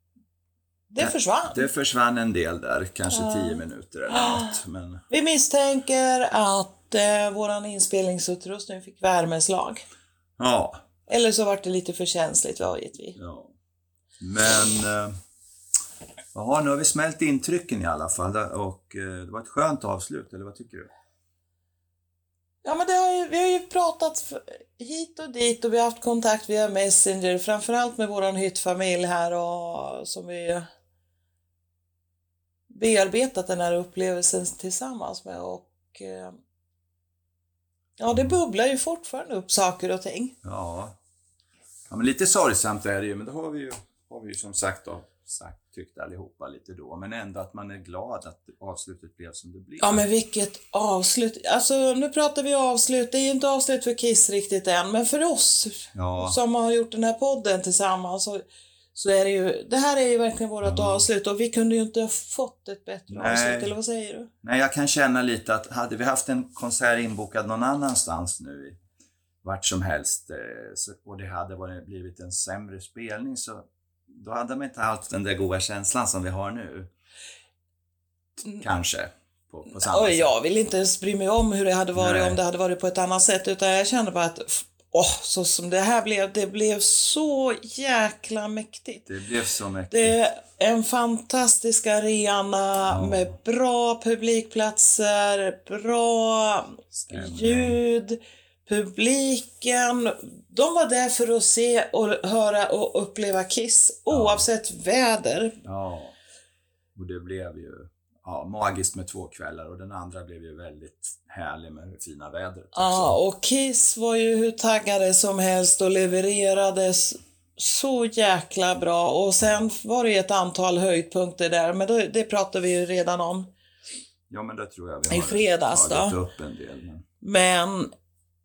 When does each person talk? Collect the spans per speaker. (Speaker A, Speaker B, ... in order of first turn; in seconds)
Speaker A: 0.9-1.7, 3.1-4.6, 5.1-9.8, 11.1-13.2, 22.6-30.7, 32.7-36.4, 38.0-40.4, 49.8-58.4, 59.0-64.3, 79.7-89.1, 89.9-105.5, 112.8-123.5, 125.1-126.2, 127.2-127.9
Speaker B: 1.0-5.0, 10.4-10.8, 13.2-13.5, 14.2-15.2, 16.3-20.9, 40.4-41.0, 41.9-50.1, 55.9-56.4, 60.6-61.1, 63.1-63.8, 64.4-68.8, 69.4-76.9, 78.6-80.3, 82.0-82.4, 89.1-90.2, 92.9-93.3, 96.9-97.8, 104.1-104.5, 105.6-106.2, 107.0-113.2, 124.3-127.0